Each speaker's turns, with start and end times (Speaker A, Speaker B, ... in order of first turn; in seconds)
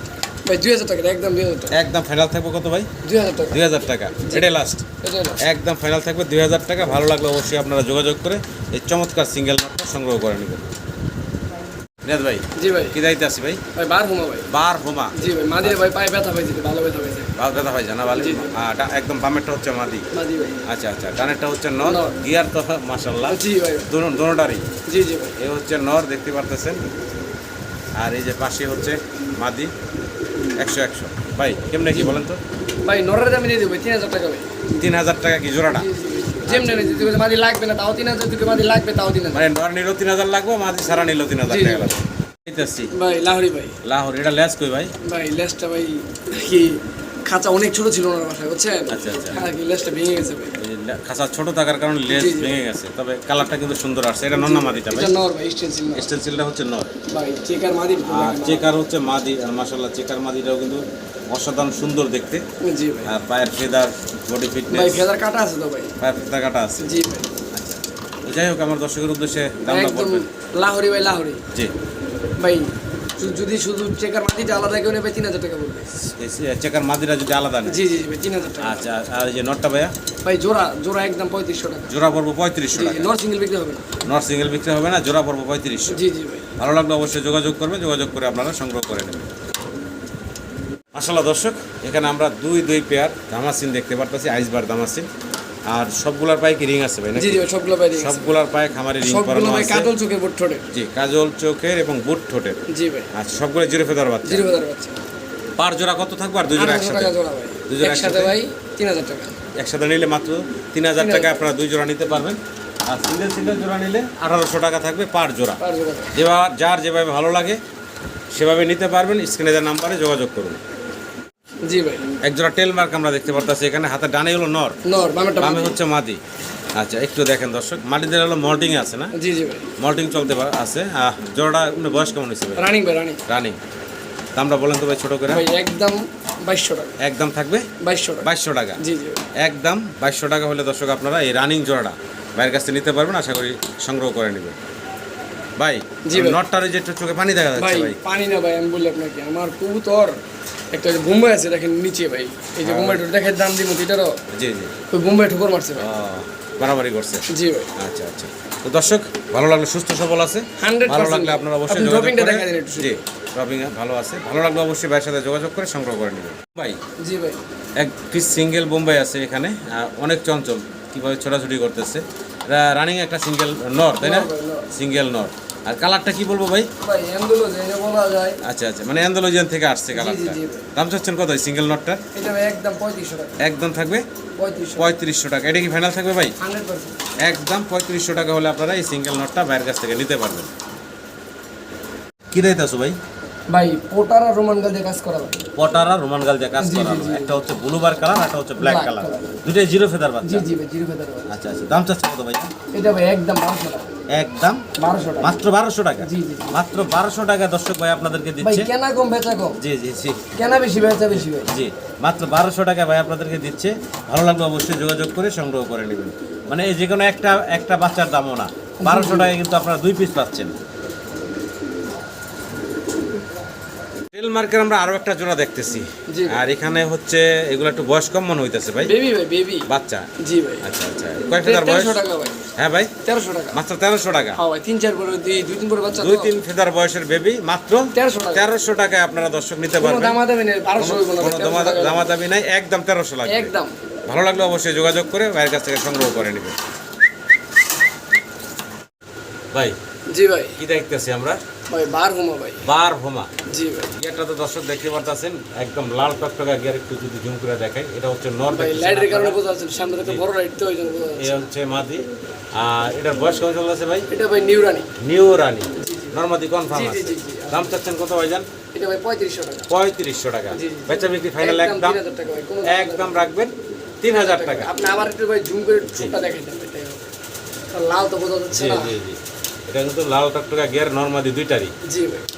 Speaker A: 0.5-1.8, 3.0-3.6, 4.2-5.4, 12.5-13.0, 13.7-14.5, 15.1-17.4, 18.1-18.5, 20.1-20.6, 21.8-22.2, 23.3-23.9, 24.9-25.4, 31.9-32.2, 32.8-34.6, 35.7-39.4, 41.5-42.0, 42.9-43.8, 45.0-50.6, 52.1-52.6, 54.3-56.1, 57.1-58.7, 62.6-63.1, 64.7-65.9, 66.8-67.3, 69.7-71.4, 72.4-75.9, 77.7-78.9, 80.2-82.0, 82.7-83.9, 85.9-86.5, 97.1-98.4, 99.0-100.7, 102.7-103.1, 104.2-105.0, 106.5-109.4, 111.0-111.5, 115.6-116.1, 121.6-122.0, 124.8-125.8, 129.1-129.7, 132.6-133.2, 135.3-137.0, 137.8-138.3, 138.8-139.2, 146.1-146.4, 147.6-150.2, 150.7-154.2, 154.9-155.9, 157.3-157.7, 160.6-163.0, 167.0-167.4, 174.0-174.7, 176.8-178.4, 179.9-180.7, 182.1-183.4, 184.4-184.9, 186.4-186.9, 193.5-195.4, 196.6-197.3, 198.6-199.4, 200.2-201.3, 202.7-203.9, 204.8-205.3, 206.0-206.6, 208.4-209.6, 210.3-211.5, 218.8-219.3, 226.1-226.4, 228.8-229.7, 230.2-230.7, 231.4-232.4, 233.0-233.6, 234.3-236.3, 237.9-238.5, 239.8-242.1, 243.2-243.7, 250.1-250.6, 251.7-252.7, 253.5-253.9, 258.5-261.4, 264.1-264.9, 265.8-266.2, 266.7-267.7, 268.7-269.7, 270.5-273.3, 274.1-277.1, 277.7-278.9, 281.8-282.2
Speaker B: 1.7-2.9, 3.5-4.8, 5.4-10.7, 12.0-13.6, 14.5-15.8, 17.4-20.1, 20.6-24.7, 25.4-26.8, 28.0-29.7, 30.6-32.4, 34.8-35.9, 36.5-36.9, 39.3-42.9, 43.8-44.9, 48.9-49.4, 50.6-55.2, 55.9-56.9, 58.1-62.4, 63.0-65.0, 66.0-70.3, 76.2-77.8, 78.6-79.9, 81.9-83.1, 84.0-86.0, 86.6-89.3, 90.9-95.1, 95.7-99.9, 100.7-102.6, 103.1-104.4, 105.6-107.1, 107.7-108.3, 109.5-115.6, 116.1-117.6, 118.3-120.6, 122.2-124.8, 125.4-126.2, 126.8-129.1, 129.8-132.7, 133.2-133.6, 134.3-135.4, 137.0-137.7, 138.2-138.8, 139.4-144.6, 145.6-148.0, 152.6-153.0, 154.3-154.7, 155.8-157.2, 157.8-166.8, 167.8-176.7, 178.4-182.0, 183.4-184.0, 184.8-186.3, 187.2-190.5, 192.3-193.0, 195.6-200.4, 201.3-202.5, 204.1-204.6, 205.2-208.7, 209.6-210.3, 211.1-220.6, 224.1-228.9, 229.7-230.1, 230.6-232.0, 232.6-232.9, 233.5-234.4, 235.9-240.2, 240.7-243.5, 244.1-246.6, 250.6-251.4, 252.6-253.3, 253.9-259.4, 261.1-264.1, 265.0-268.4, 269.7-272.0, 272.6-274.7, 278.5-281.7